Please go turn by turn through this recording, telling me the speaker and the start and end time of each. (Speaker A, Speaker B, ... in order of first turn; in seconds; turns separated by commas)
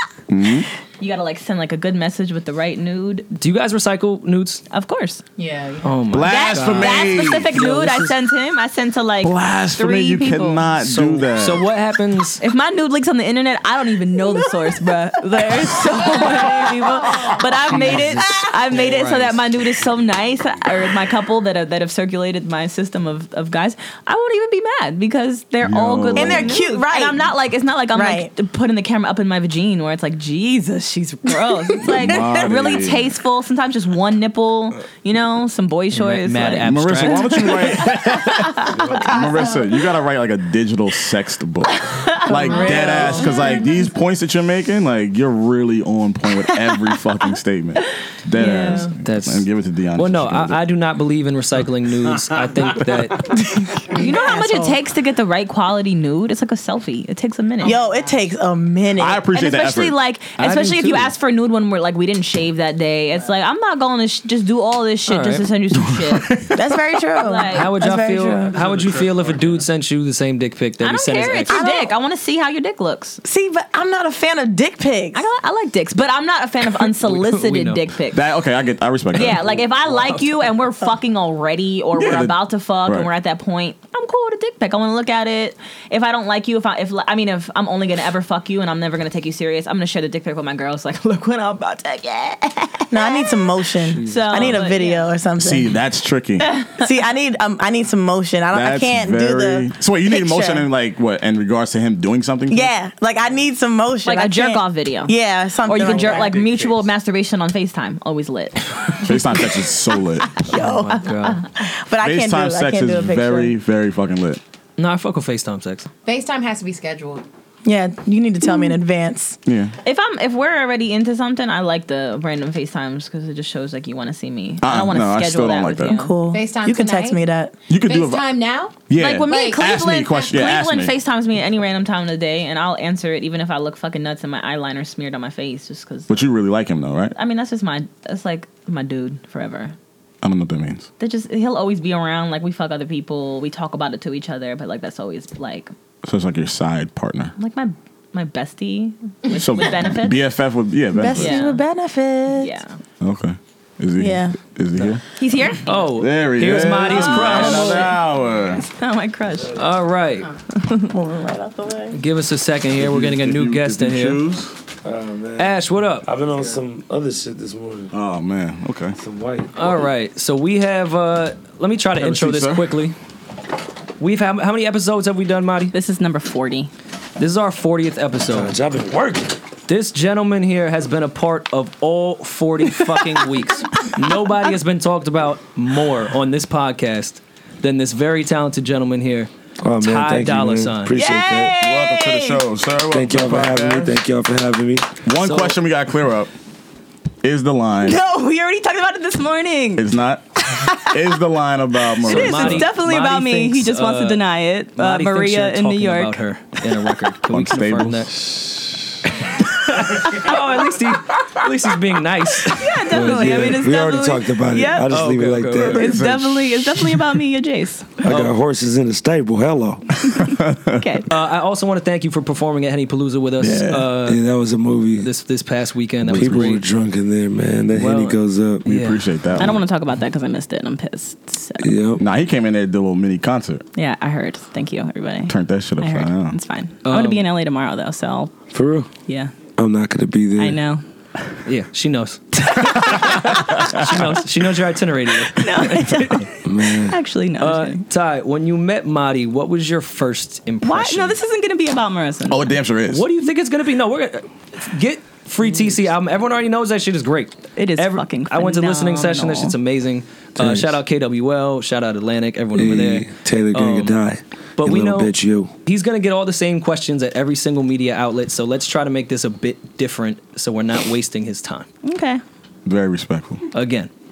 Speaker A: 0.3-0.7, Speaker B: 1.0-3.4, Speaker C: 3.4-4.6, Speaker B: 4.7-5.2, Speaker D: 5.4-6.0, Speaker C: 5.8-8.2, Speaker A: 6.1-7.5, Speaker B: 6.2-10.7, Speaker A: 9.2-11.6, Speaker C: 10.8-12.4, Speaker B: 12.4-39.0, Speaker E: 16.1-17.4, Speaker C: 17.7-19.4, Speaker E: 18.1-18.5, Speaker A: 25.6-26.6, Speaker E: 26.1-27.2, Speaker E: 27.9-28.3, Speaker A: 31.8-33.1, Speaker C: 35.9-37.5, Speaker A: 36.6-50.6, Speaker B: 41.9-43.6, Speaker D: 42.5-43.1, Speaker B: 48.3-48.9, Speaker C: 49.0-53.4, Speaker E: 53.5-54.8, Speaker B: 53.9-57.8, Speaker E: 57.6-59.2, Speaker A: 59.0-59.9, Speaker B: 59.3-66.4, Speaker C: 60.4-61.1, Speaker C: 65.1-65.5, Speaker E: 66.5-68.5, Speaker B: 67.1-67.7, Speaker C: 67.5-71.6, Speaker F: 68.7-69.4, Speaker B: 70.8-73.2, Speaker E: 71.5-71.9, Speaker E: 73.2-75.2, Speaker B: 75.1-78.2, Speaker C: 77.0-77.8, Speaker A: 78.1-79.6, Speaker B: 79.1-93.5, Speaker C: 79.8-80.2, Speaker A: 81.9-83.1, Speaker E: 92.9-95.7, Speaker F: 93.9-94.3, Speaker B: 94.0-95.1, Speaker A: 95.4-96.5, Speaker B: 96.5-96.8, Speaker E: 96.7-100.7, Speaker A: 98.5-102.7, Speaker E: 102.5-106.4, Speaker B: 104.0-109.2, Speaker F: 106.4-106.7, Speaker A: 109.0-110.4, Speaker E: 110.4-113.5, Speaker C: 110.5-111.4, Speaker A: 112.0-114.4, Speaker C: 114.8-115.9, Speaker D: 116.0-117.2, Speaker E: 117.6-119.4, Speaker A: 119.5-119.7, Speaker B: 119.8-126.1, Speaker A: 124.6-126.0, Speaker E: 125.9-127.5, Speaker D: 126.2-127.2, Speaker A: 127.7-130.9, Speaker D: 127.8-129.8, Speaker B: 128.9-136.3, Speaker A: 136.1-137.1, Speaker B: 137.1-139.7, Speaker A: 140.2-140.9, Speaker B: 141.0-145.7, Speaker A: 146.0-147.3, Speaker B: 147.4-150.2, Speaker A: 149.3-151.4, Speaker E: 150.9-152.5, Speaker B: 151.1-151.6, Speaker B: 152.3-152.8, Speaker A: 153.0-155.0, Speaker E: 154.0-154.4, Speaker B: 155.2-155.7, Speaker C: 155.6-157.9, Speaker A: 155.9-158.7, Speaker B: 156.5-158.0, Speaker B: 158.7-159.6, Speaker C: 159.5-160.3, Speaker B: 160.5-160.9, Speaker E: 160.9-162.0, Speaker C: 161.9-164.2, Speaker A: 162.8-164.5, Speaker F: 164.8-167.9, Speaker C: 165.4-166.1, Speaker A: 167.9-169.0, Speaker F: 169.0-169.8, Speaker C: 169.5-173.0, Speaker A: 172.0-172.7, Speaker C: 174.0-175.7, Speaker B: 175.7-176.7, Speaker C: 177.2-178.5, Speaker F: 178.3-179.4, Speaker C: 179.7-191.0, Speaker F: 189.6-191.5, Speaker B: 190.9-192.4, Speaker A: 191.6-194.0, Speaker F: 192.9-195.0, Speaker A: 195.0-196.3, Speaker C: 195.2-195.6, Speaker A: 197.2-198.0, Speaker B: 197.8-199.9, Speaker A: 199.8-202.7, Speaker B: 200.4-201.2, Speaker B: 201.9-206.2, Speaker C: 202.0-204.2, Speaker C: 204.8-208.2, Speaker A: 207.3-208.4, Speaker C: 209.2-212.7, Speaker B: 210.0-210.4, Speaker B: 212.5-214.9, Speaker F: 212.9-215.8, Speaker C: 214.9-215.9, Speaker B: 215.6-217.9, Speaker A: 215.8-217.1, Speaker F: 218.0-219.8, Speaker C: 218.0-218.3, Speaker A: 220.0-221.0, Speaker B: 220.8-221.1, Speaker C: 221.1-224.2, Speaker A: 223.4-223.9, Speaker F: 224.0-225.1, Speaker C: 225.0-226.6, Speaker A: 226.1-226.6, Speaker F: 226.1-228.7, Speaker C: 227.7-229.0, Speaker A: 228.7-229.6, Speaker B: 229.4-231.7, Speaker F: 231.6-232.0, Speaker A: 232.0-233.6, Speaker B: 233.8-238.3, Speaker A: 235.3-236.3, Speaker C: 236.8-237.2, Speaker F: 238.5-238.9, Speaker B: 239.1-239.3, Speaker F: 239.6-240.6, Speaker B: 240.4-241.4, Speaker C: 241.4-246.3, Speaker B: 242.4-243.7, Speaker B: 245.3-247.8, Speaker F: 246.4-247.0, Speaker C: 247.4-251.2, Speaker B: 250.6-252.5, Speaker A: 252.3-253.0, Speaker C: 252.9-264.0, Speaker B: 257.6-259.6, Speaker F: 260.4-260.8, Speaker F: 262.5-265.5, Speaker C: 264.6-265.1, Speaker C: 265.6-271.7, Speaker B: 271.8-272.2, Speaker A: 272.6-273.4, Speaker C: 273.5-273.9